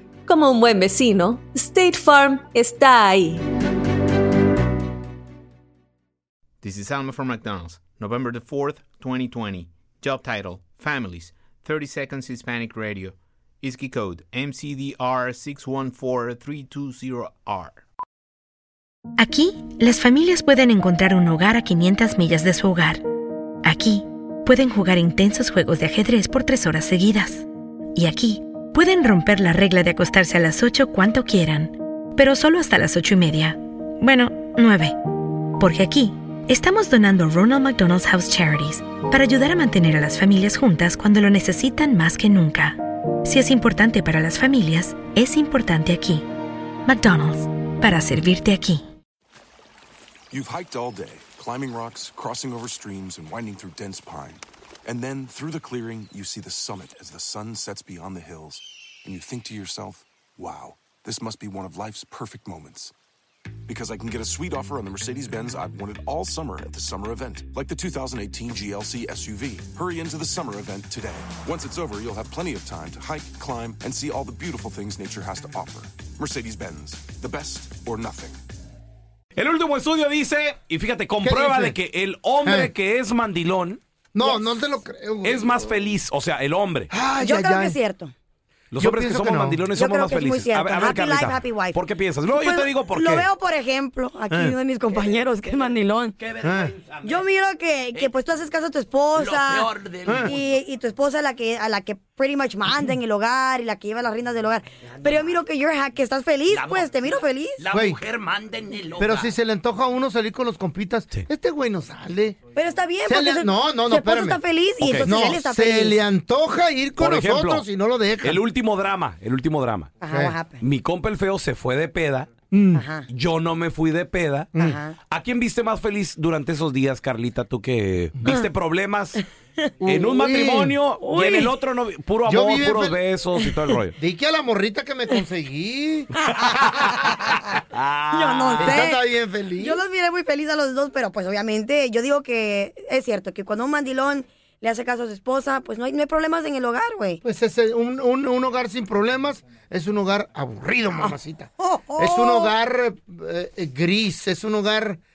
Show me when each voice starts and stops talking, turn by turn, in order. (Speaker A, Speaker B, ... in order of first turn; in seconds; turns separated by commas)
Speaker A: 0.3-3.4, Speaker B: 6.6-17.8, Speaker C: 19.2-23.0, Speaker C: 23.6-35.0, Speaker C: 35.6-46.2, Speaker C: 46.9-48.8, Speaker D: 50.3-62.9, Speaker D: 63.7-78.4, Speaker E: 79.4-83.8, Speaker F: 81.2-81.8, Speaker F: 82.4-82.7, Speaker F: 84.1-85.9, Speaker G: 84.2-84.6, Speaker E: 85.2-86.9, Speaker F: 86.9-87.8, Speaker G: 87.2-88.1, Speaker E: 88.7-93.3, Speaker F: 88.8-89.7, Speaker G: 89.7-96.2, Speaker F: 94.3-94.5, Speaker H: 96.2-97.2, Speaker F: 96.4-96.7, Speaker G: 97.0-99.7, Speaker H: 99.2-100.2, Speaker F: 100.1-100.3, Speaker G: 100.2-107.6, Speaker H: 104.9-105.3, Speaker H: 106.5-106.9, Speaker H: 107.6-109.3, Speaker F: 107.7-108.0, Speaker F: 109.0-112.4, Speaker G: 112.5-116.0, Speaker F: 113.1-114.4, Speaker E: 114.8-115.2, Speaker F: 115.0-118.4, Speaker E: 117.0-117.7, Speaker E: 118.2-119.9, Speaker G: 120.0-120.6, Speaker F: 120.1-120.4, Speaker E: 120.6-122.3, Speaker F: 122.5-122.8, Speaker G: 122.7-123.1, Speaker E: 123.1-124.5, Speaker F: 124.5-124.8, Speaker G: 124.6-125.0, Speaker E: 125.1-129.2, Speaker F: 129.8-130.8, Speaker E: 129.9-134.0, Speaker G: 131.0-131.5, Speaker F: 132.2-133.0, Speaker F: 134.0-136.1, Speaker G: 136.2-137.5, Speaker E: 136.3-138.9, Speaker G: 138.1-147.2, Speaker F: 138.6-139.8, Speaker F: 147.2-155.0, Speaker G: 151.0-152.5